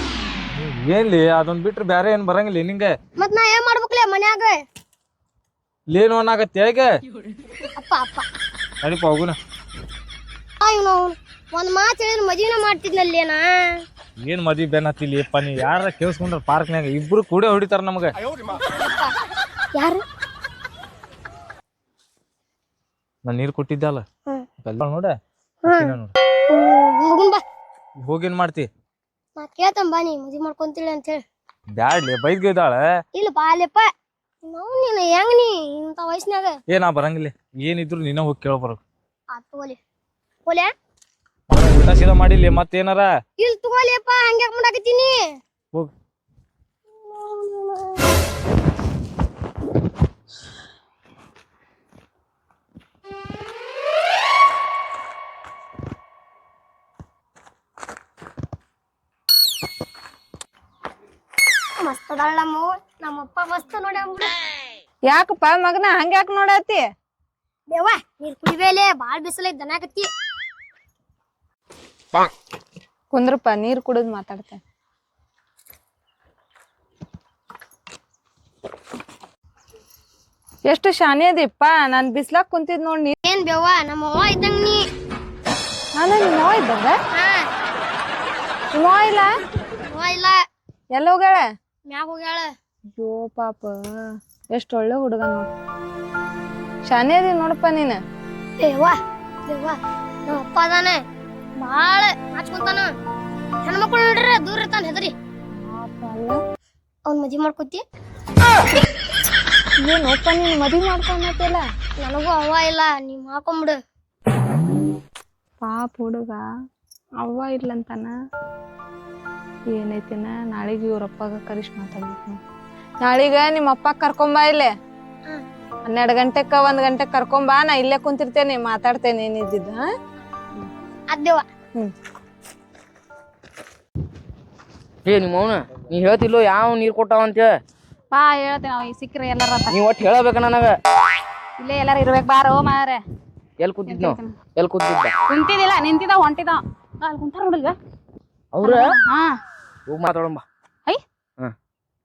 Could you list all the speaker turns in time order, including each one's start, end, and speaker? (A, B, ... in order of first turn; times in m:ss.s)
0:00.5-0:02.9 A
0:03.2-0:04.5 B
0:05.9-0:06.9 A
0:07.8-0:08.2 B
0:08.8-0:09.4 A
0:10.6-0:13.4 B
0:14.2-0:18.1 A
0:18.7-0:19.1 B
0:19.8-0:20.0 B
0:23.3-0:24.0 A
0:24.6-0:25.1 A
0:25.7-0:26.0 B
0:25.7-0:26.1 A
0:26.5-0:27.4 B
0:28.0-0:28.7 A
0:29.4-0:31.2 B
0:31.8-0:32.8 A
0:33.2-0:33.9 B
0:34.5-0:36.6 B
0:36.7-0:38.8 A
0:39.3-0:39.8 B
0:41.5-0:43.1 A
0:43.4-0:45.2 B
0:47.1-0:47.9 B
1:01.8-1:04.3 B
1:05.1-1:06.9 C
1:07.7-1:10.1 B
1:13.1-1:14.6 C
1:20.7-1:23.2 C
1:23.2-1:24.8 B
1:26.0-1:26.9 C
1:27.1-1:27.5 B
1:28.7-1:29.3 C
1:29.9-1:30.4 B
1:30.9-1:31.4 C
1:31.9-1:32.5 B
1:33.0-1:33.8 C
1:34.5-1:35.5 C
1:36.9-1:38.0 C
1:38.6-1:41.0 B
1:41.6-1:42.9 B
1:43.7-1:45.1 B
1:45.6-1:46.4 C
1:47.1-1:47.8 B
1:49.8-1:51.6 C
1:52.0-1:53.8 B
1:55.6-1:56.4 C
1:57.2-1:58.1 C
1:59.7-2:02.4 C
2:03.0-2:04.7 C
2:05.8-2:09.9 C
2:11.1-2:11.4 B
2:15.0-2:17.6 D
2:18.1-2:19.8 E
2:19.7-2:20.7 D
2:21.6-2:23.0 E
2:23.6-2:25.2 D
2:23.9-2:24.4 E
2:25.3-2:27.8 E
2:28.5-2:29.0 D
2:28.6-2:29.3 E
2:29.9-2:30.4 D